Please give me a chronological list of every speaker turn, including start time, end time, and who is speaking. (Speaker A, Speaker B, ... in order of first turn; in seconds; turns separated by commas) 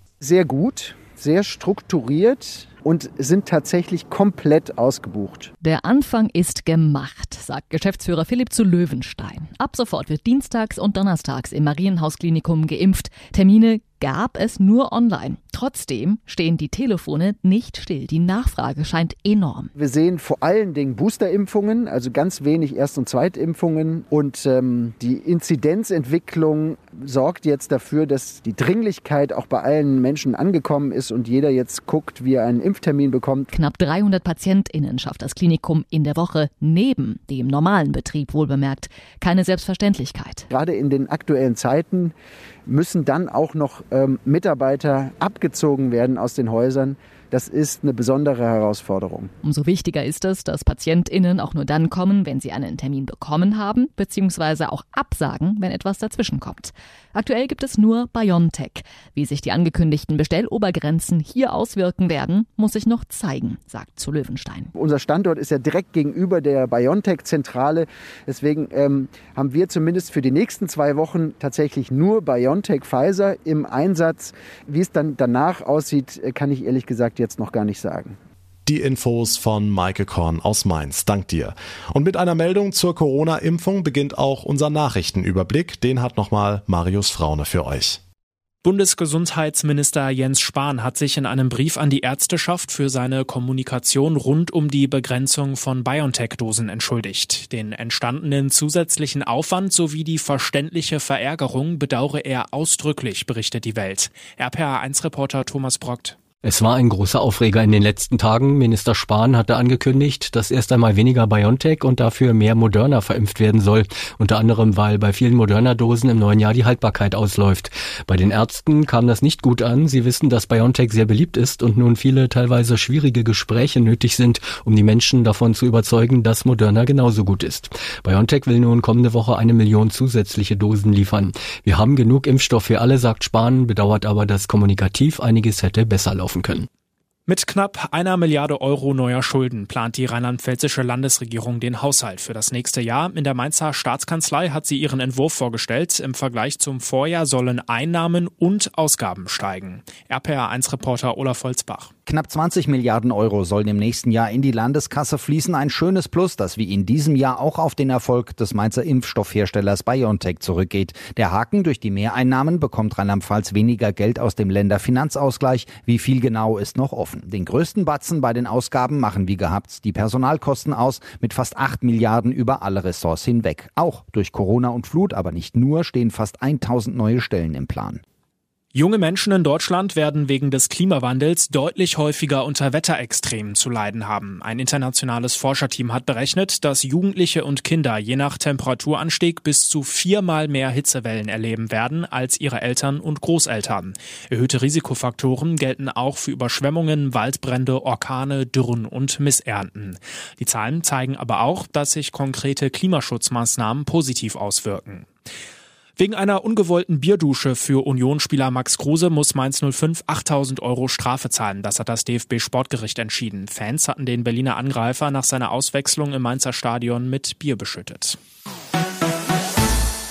Speaker A: 0.2-5.5, Speaker B: 5.6-19.7, Speaker A: 19.8-33.5, Speaker B: 33.5-40.5, Speaker A: 40.5-42.1, Speaker A: 42.7-49.3, Speaker B: 49.4-64.7, Speaker A: 64.8-78.2, Speaker C: 78.7-88.0, Speaker D: 88.6-106.2, Speaker E: 106.4-136.7, Speaker D: 137.3-151.9, Speaker F: 152.1-178.0, Speaker D: 178.8-205.1, Speaker D: 206.0-218.2